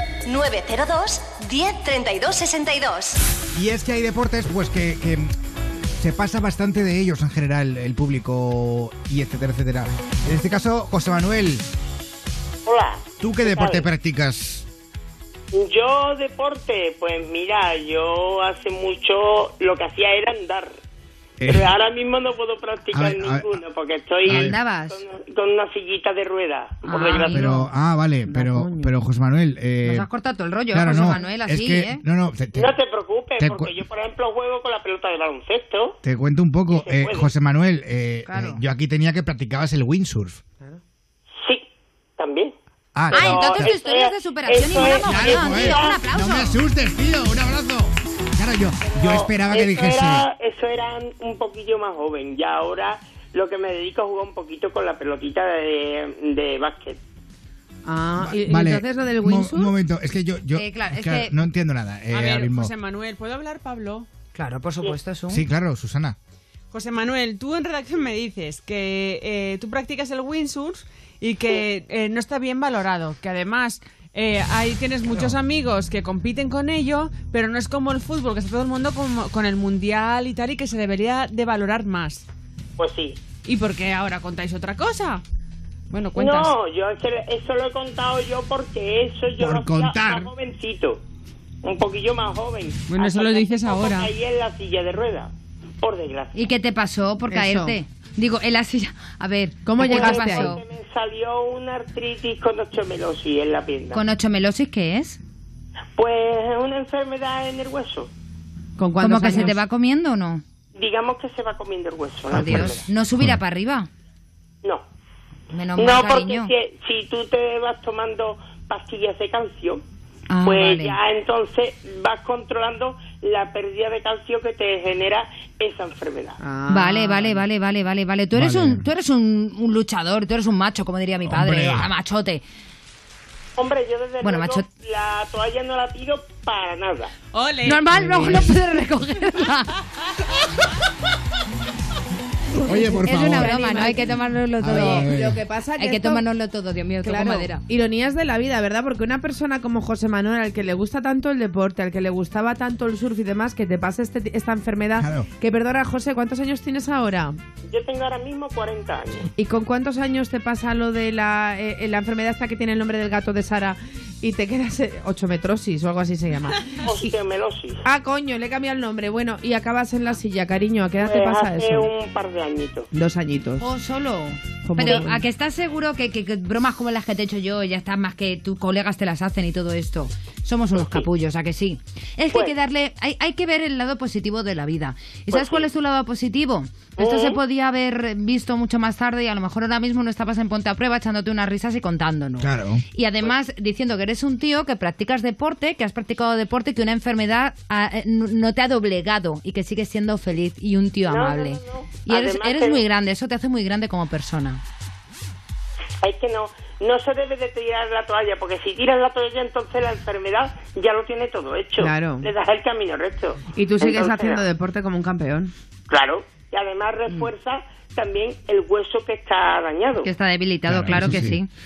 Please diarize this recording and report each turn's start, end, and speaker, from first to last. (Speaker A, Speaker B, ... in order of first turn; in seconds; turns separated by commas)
Speaker A: 0.2-3.2, Speaker B: 3.5-5.3, Speaker B: 6.0-11.7, Speaker C: 12.7-13.9, Speaker B: 13.2-14.7, Speaker C: 15.5-20.7, Speaker B: 21.4-21.7, Speaker C: 21.5-27.5, Speaker B: 22.9-23.6, Speaker D: 24.2-25.0, Speaker B: 24.3-24.6, Speaker D: 26.9-27.7, Speaker B: 27.3-30.1, Speaker E: 28.2-28.9, Speaker D: 29.8-32.0, Speaker B: 30.7-32.7, Speaker C: 32.5-36.0, Speaker B: 33.4-33.7, Speaker B: 36.0-40.4, Speaker C: 36.7-37.3, Speaker D: 38.2-38.6, Speaker C: 42.2-42.5, Speaker B: 42.9-43.7, Speaker C: 43.1-46.1, Speaker D: 43.1-46.6, Speaker B: 45.0-50.3, Speaker C: 48.8-57.0, Speaker E: 57.8-59.7, Speaker B: 58.2-62.7, Speaker D: 60.5-61.4, Speaker F: 62.1-64.1, Speaker D: 64.3-65.4, Speaker B: 65.3-66.2, Speaker F: 66.7-82.2, Speaker B: 75.1-75.4, Speaker C: 82.8-83.2, Speaker F: 83.4-85.2, Speaker F: 85.9-86.5, Speaker C: 86.1-91.0, Speaker B: 89.4-90.3, Speaker C: 91.6-96.5, Speaker F: 92.9-94.1, Speaker D: 96.3-100.6, Speaker E: 97.3-97.8, Speaker E: 99.6-100.5, Speaker C: 99.8-104.0, Speaker D: 103.9-105.2, Speaker C: 106.0-108.1, Speaker E: 108.8-109.6, Speaker D: 109.0-110.4, Speaker C: 110.7-112.9, Speaker B: 112.3-113.4, Speaker D: 112.3-113.9, Speaker D: 115.5-116.5, Speaker C: 115.8-119.8, Speaker D: 120.3-121.0, Speaker C: 120.4-126.4, Speaker E: 126.4-127.4, Speaker D: 126.7-132.4, Speaker B: 128.3-128.8, Speaker B: 131.2-131.9, Speaker C: 133.6-137.1, Speaker D: 134.2-134.6, Speaker F: 137.3-137.8, Speaker D: 137.6-139.8, Speaker B: 137.9-138.5, Speaker B: 142.6-143.8, Speaker E: 142.7-144.0, Speaker D: 142.7-145.1, Speaker B: 144.6-145.4, Speaker E: 144.7-146.2, Speaker D: 145.8-147.6, Speaker E: 147.0-157.4, Speaker B: 155.0-155.3, Speaker C: 157.7-159.3, Speaker E: 159.4-167.1, Speaker C: 166.8-167.8, Speaker E: 167.8-171.9, Speaker C: 171.0-172.9, Speaker E: 172.9-173.7, Speaker D: 173.6-204.6, Speaker E: 174.6-175.2, Speaker C: 180.7-181.1, Speaker C: 185.3-185.7, Speaker C: 187.0-187.4, Speaker B: 192.4-192.8, Speaker C: 201.1-202.8, Speaker C: 206.0-214.4, Speaker E: 211.8-212.3, Speaker E: 213.5-215.5, Speaker C: 215.9-220.1, Speaker D: 220.0-221.5, Speaker B: 220.7-221.4